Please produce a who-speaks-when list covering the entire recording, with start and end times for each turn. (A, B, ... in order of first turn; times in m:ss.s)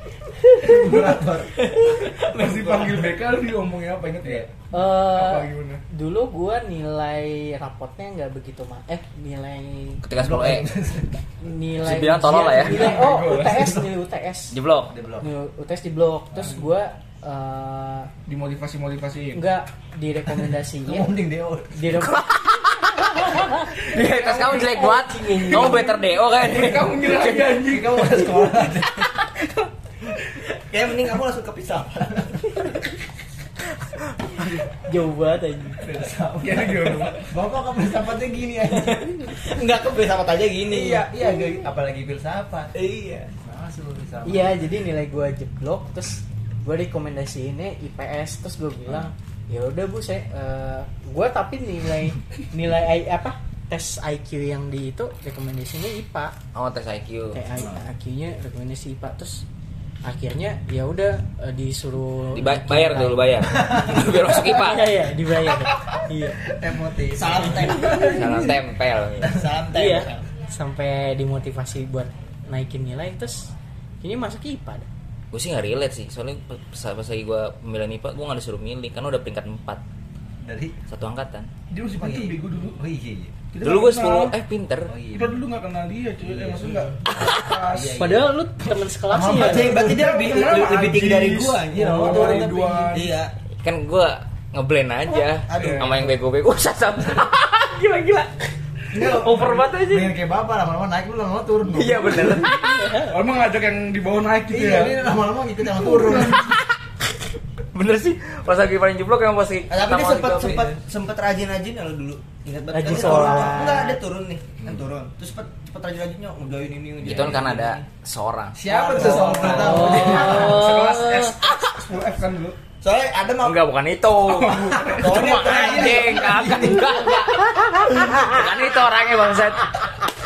0:00.5-0:01.0 A
0:00.6-0:01.6 B
0:00.8-0:03.1 C
0:02.2-0:05.8 D
0:04.7-0:10.0 A
0:10.0-0:10.7 E
0:10.2-0:11.2 B
0:11.4-0:14.6 A
0:11.8-0:13.1 E
0:12.3-0:13.9 D
0:14.5-0:14.9 E
0:14.9-0:15.3 B
0:15.2-0:18.1 A
0:18.3-0:19.5 D
0:19.3-0:21.2 A
0:20.8-0:22.1 B
0:21.7-0:22.3 A
0:21.9-0:27.1 E
0:23.1-0:26.0 A
0:26.3-0:28.3 D
0:27.4-0:29.1 B
0:30.5-0:32.8 C
0:34.4-0:35.8 A
0:35.8-0:36.1 C
0:35.9-0:39.0 B
0:36.4-0:37.3 D
0:38.6-0:41.2 C
0:40.7-0:42.7 B
0:42.7-0:43.3 C
0:43.4-0:44.7 B
0:44.2-0:56.3 A
0:56.5-0:57.7 E
0:57.3-0:59.4 A
1:00.0-1:06.4 A
1:02.3-1:05.1 E
1:06.5-1:08.4 C
1:07.2-1:08.2 B
1:07.8-1:08.1 A
1:07.9-1:09.4 E
1:09.2-1:10.3 C
1:09.7-1:14.9 A
1:15.3-1:19.8 E
1:20.4-1:20.8 B
1:20.9-1:21.5 E
1:21.7-1:22.8 D
1:21.7-1:23.4 B
1:23.5-1:24.4 D
1:23.6-1:24.9 E
1:24.9-1:25.4 B
1:25.1-1:28.2 D
1:26.2-1:30.0 B
1:28.0-1:29.8 A
1:29.1-1:33.3 C
1:29.7-1:33.2 D
1:31.9-1:32.6 B
1:33.6-1:37.8 E
1:35.5-1:36.1 C
1:35.6-1:36.0 D
1:37.7-1:38.4 A
1:38.9-1:42.4 B
1:39.0-1:39.8 C
1:41.7-1:42.9 E
1:42.3-1:43.2 A
1:43.0-1:45.1 D
1:44.5-1:46.6 B
1:45.8-1:46.4 D
1:47.7-1:50.7 E
1:49.7-1:57.9 C
1:50.4-1:50.7 B
1:52.7-1:54.0 A
1:57.0-1:59.8 E
1:57.0-1:57.5 B
1:58.6-2:00.7 B
1:58.6-2:01.2 C
1:59.4-2:02.6 D
1:59.6-2:01.3 A
2:02.8-2:03.7 C
2:03.4-2:09.9 E
2:04.2-2:05.9 D
2:04.9-2:06.7 C
2:05.1-2:06.9 B
2:06.9-2:08.5 A